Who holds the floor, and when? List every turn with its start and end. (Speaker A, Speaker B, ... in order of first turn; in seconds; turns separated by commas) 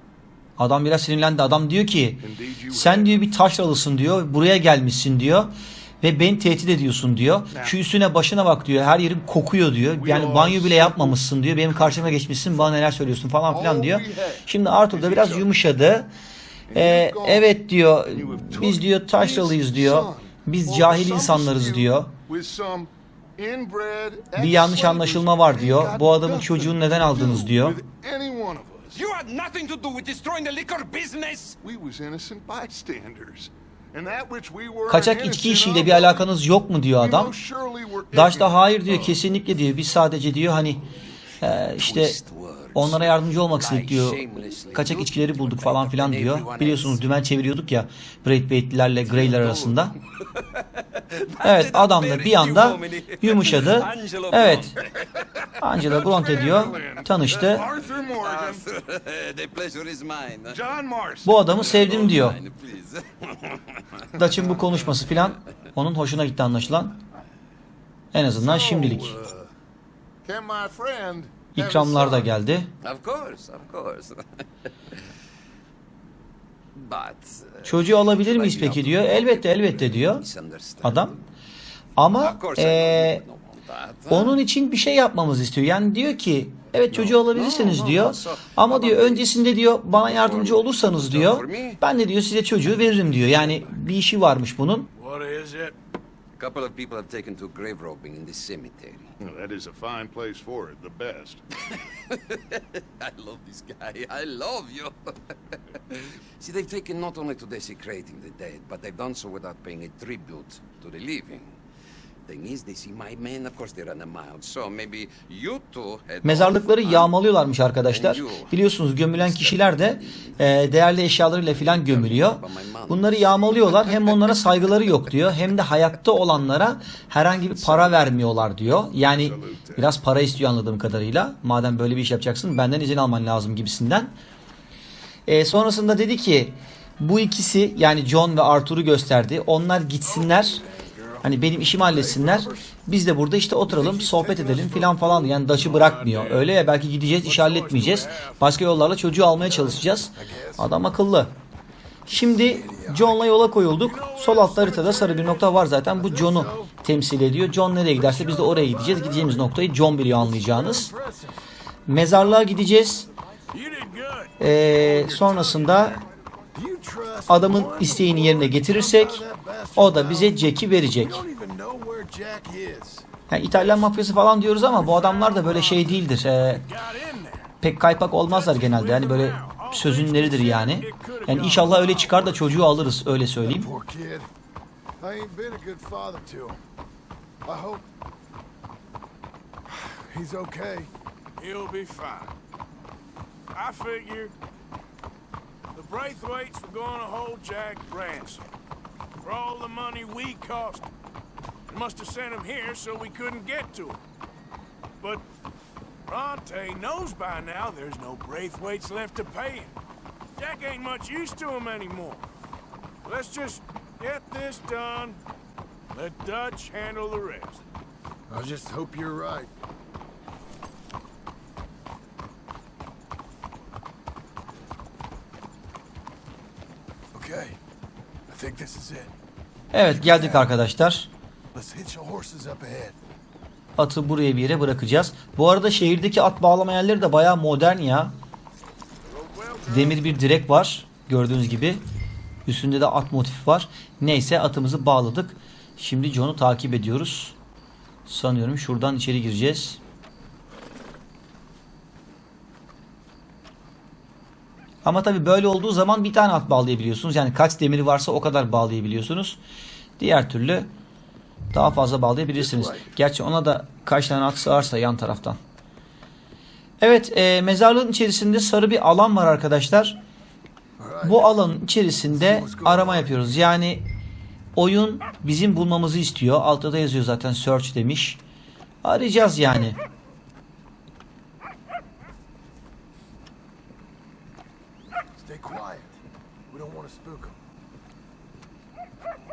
Speaker A: 0.6-16.1, Speaker B: 2.2-3.2, Speaker B: 7.5-7.8, Speaker B: 10.0-11.2, Speaker B: 11.7-12.1, Speaker B: 13.5-15.5, Speaker B: 16.7-29.1, Speaker A: 16.7-22.1, Speaker A: 24.4-27.8, Speaker C: 28.9-31.6, Speaker B: 31.6-36.3, Speaker A: 34.9-37.3, Speaker B: 37.0-39.2, Speaker A: 38.1-40.8, Speaker C: 40.9-47.0, Speaker A: 41.4-42.2, Speaker A: 42.7-50.0, Speaker C: 49.0-49.8, Speaker C: 51.1-55.0, Speaker A: 51.4-54.8, Speaker A: 55.6-57.7, Speaker B: 55.8-58.8, Speaker C: 57.9-60.7, Speaker B: 60.5-62.2, Speaker A: 61.2-62.4, Speaker C: 61.6-63.6, Speaker A: 64.2-67.0, Speaker A: 68.1-69.2, Speaker B: 68.4-69.5, Speaker B: 70.2-72.3, Speaker A: 71.5-72.7, Speaker C: 72.8-74.3, Speaker C: 76.8-81.2, Speaker A: 77.7-80.3, Speaker A: 80.8-81.2, Speaker A: 82.0-83.2, Speaker C: 82.2-84.4, Speaker A: 84.1-94.9, Speaker B: 86.9-87.2, Speaker C: 87.3-91.8, Speaker D: 95.0-95.8, Speaker C: 96.4-99.1, Speaker B: 99.2-101.4, Speaker C: 102.1-105.2, Speaker C: 106.0-111.5, Speaker C: 112.3-117.1, Speaker A: 116.2-134.1, Speaker C: 117.9-118.6, Speaker C: 119.1-120.6, Speaker C: 121.4-123.5, Speaker B: 127.6-128.0, Speaker B: 129.0-129.9, Speaker A: 135.3-140.6, Speaker D: 140.0-141.2, Speaker A: 141.2-151.3, Speaker E: 141.7-142.7, Speaker E: 143.7-145.2, Speaker D: 145.3-146.5, Speaker D: 147.2-148.6, Speaker E: 149.4-150.7, Speaker A: 152.1-160.9, Speaker E: 152.1-153.1, Speaker D: 153.8-155.5, Speaker E: 156.0-156.8, Speaker E: 158.0-159.5, Speaker E: 160.2-161.4, Speaker A: 161.9-163.1, Speaker D: 163.5-166.0, Speaker A: 164.4-166.0, Speaker E: 166.5-170.4, Speaker A: 167.3-169.2, Speaker A: 169.8-171.2, Speaker E: 170.9-173.1, Speaker A: 173.3-176.7, Speaker D: 174.8-177.5, Speaker A: 177.6-183.7, Speaker D: 178.2-182.6, Speaker E: 183.4-184.3, Speaker E: 185.0-186.6, Speaker E: 187.4-187.8, Speaker E: 189.8-190.9, Speaker D: 191.4-192.3, Speaker D: 193.5-194.3, Speaker D: 195.8-198.4, Speaker D: 199.2-200.9, Speaker D: 201.7-204.0, Speaker D: 206.1-209.7, Speaker D: 210.4-212.2, Speaker D: 213.1-215.2, Speaker D: 215.9-217.6, Speaker E: 218.3-219.5, Speaker E: 227.1-227.6, Speaker E: 228.3-229.1, Speaker A: 229.7-231.1, Speaker E: 229.8-230.5, Speaker E: 231.5-232.9, Speaker A: 233.8-238.1, Speaker A: 239.7-241.8, Speaker A: 242.5-247.3, Speaker A: 248.1-249.8, Speaker A: 254.8-259.4, Speaker A: 260.0-260.7, Speaker A: 261.5-265.4, Speaker E: 262.4-262.9, Speaker A: 266.8-270.0, Speaker E: 270.8-271.4, Speaker A: 271.0-273.9, Speaker E: 272.1-273.2, Speaker A: 274.6-278.2, Speaker A: 278.8-279.8, Speaker E: 285.2-285.9, Speaker E: 286.5-287.4